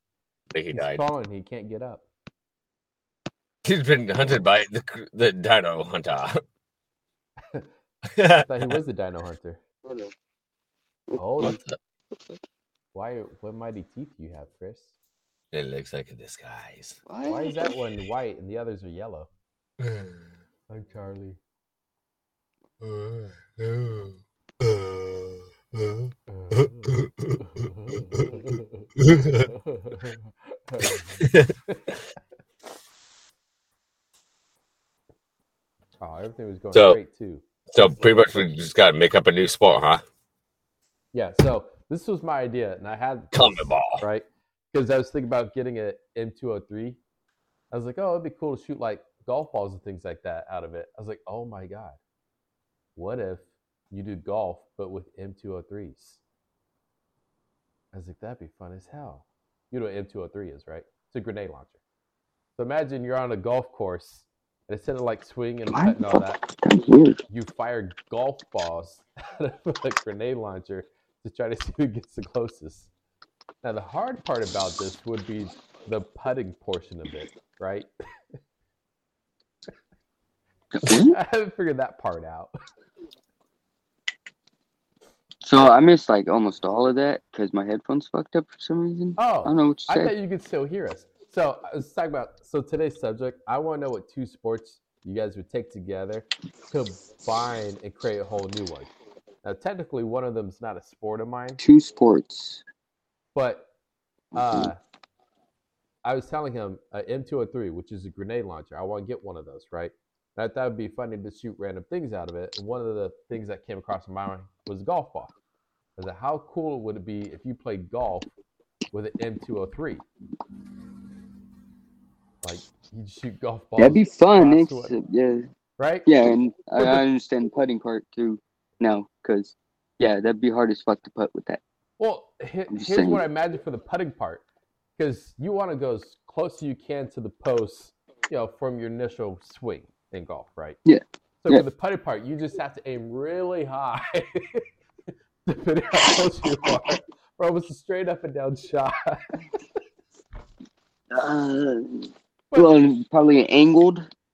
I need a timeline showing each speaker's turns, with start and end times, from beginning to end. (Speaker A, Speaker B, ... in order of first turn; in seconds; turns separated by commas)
Speaker A: 0.5-1.0, Speaker B: 0.7-2.0, Speaker A: 3.6-6.4, Speaker A: 8.1-8.8, Speaker B: 8.4-9.6, Speaker C: 9.8-10.1, Speaker C: 11.1-11.6, Speaker B: 11.2-11.6, Speaker A: 11.4-11.8, Speaker B: 12.9-14.9, Speaker A: 15.5-17.0, Speaker C: 17.1-17.7, Speaker B: 17.3-19.3, Speaker A: 19.8-20.1, Speaker B: 20.7-21.4, Speaker A: 22.8-26.0, Speaker B: 26.3-31.9, Speaker A: 26.6-27.4, Speaker A: 29.0-29.5, Speaker A: 31.2-31.5, Speaker B: 36.0-38.4, Speaker A: 37.7-40.0, Speaker B: 41.1-47.0, Speaker A: 43.3-44.0, Speaker B: 47.7-52.0, Speaker B: 53.0-56.2, Speaker B: 57.9-61.8, Speaker B: 62.6-66.4, Speaker C: 65.7-67.2, Speaker B: 67.3-72.9, Speaker B: 73.6-77.9, Speaker C: 80.7-81.2, Speaker B: 80.8-82.5, Speaker C: 85.4-90.1, Speaker B: 89.2-98.9, Speaker B: 99.4-101.6, Speaker C: 101.6-102.6, Speaker B: 103.3-103.7, Speaker C: 104.3-104.7, Speaker B: 104.3-104.8, Speaker B: 106.0-115.3, Speaker B: 116.0-118.3, Speaker B: 118.9-120.0, Speaker B: 122.4-125.0, Speaker C: 123.8-125.5, Speaker B: 125.8-126.1, Speaker C: 126.1-131.6, Speaker B: 126.8-127.0, Speaker B: 132.0-134.4, Speaker C: 132.7-133.2, Speaker B: 135.0-140.8, Speaker C: 140.9-141.6, Speaker B: 141.4-144.7, Speaker B: 145.5-149.2, Speaker C: 151.1-154.1